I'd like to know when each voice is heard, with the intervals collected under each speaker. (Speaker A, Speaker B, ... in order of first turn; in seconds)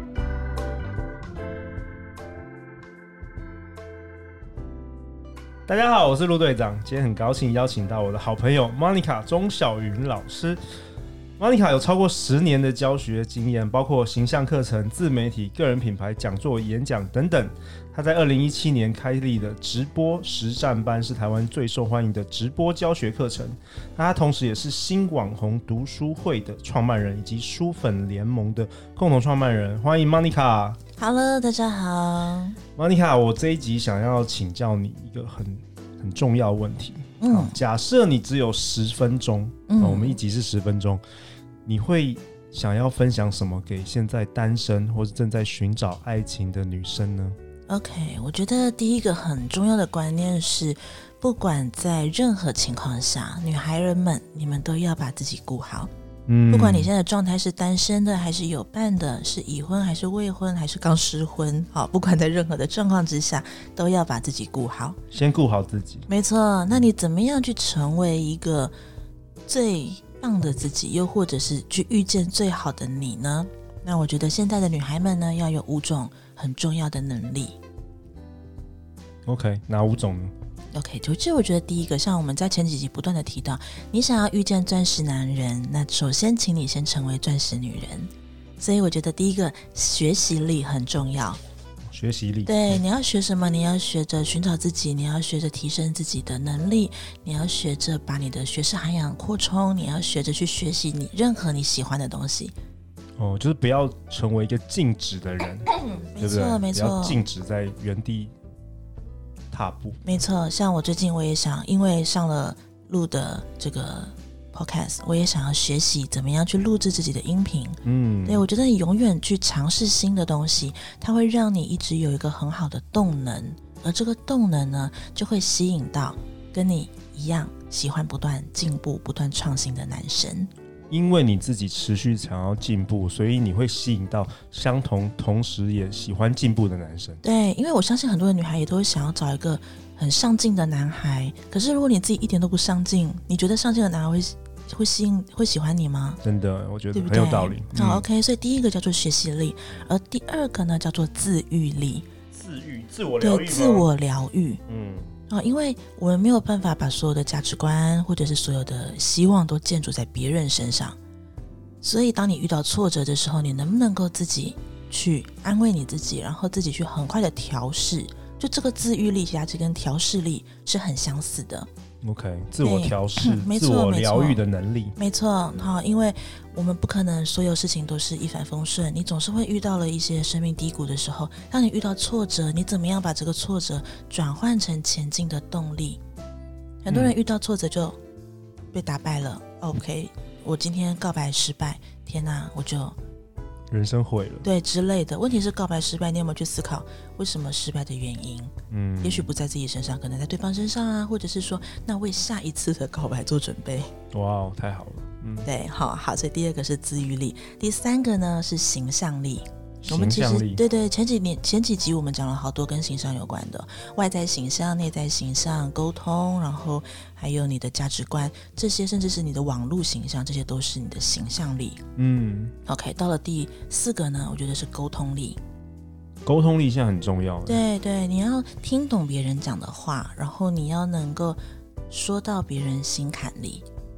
Speaker A: 5.7-10.6, 11.4-30.8, 32.8-41.0, 41.6-47.4, 56.3-56.9, 65.1-66.1, 79.2-80.3, 91.9-92.8, 103.2-108.3, 109.5-110.0, 117.8-118.4, 130.9-137.2, 146.2-148.0, 152.3-153.9, 154.7-155.1, 172.0-174.9, 186.9-187.1, 193.7-194.4, 198.7-199.3, 204.1-205.5, 209.8-210.6, 222.0-222.5, 226.2-227.6
Speaker B: 31.0-32.6, 37.2-37.5, 39.7-40.2, 47.7-55.9, 56.5-65.0, 66.1-68.7, 69.5-77.6, 80.7-91.4, 92.5-102.5, 105.7-107.2, 110.0-130.5, 137.2-146.2, 146.9-152.1, 153.2-154.6, 155.3-161.0, 161.8-171.7, 172.6-174.4, 174.9-186.0, 186.8-188.0, 188.7-193.0, 194.4-203.9, 205.4-221.8, 222.7-225.4, 227.4-231.4, 231.9-233.7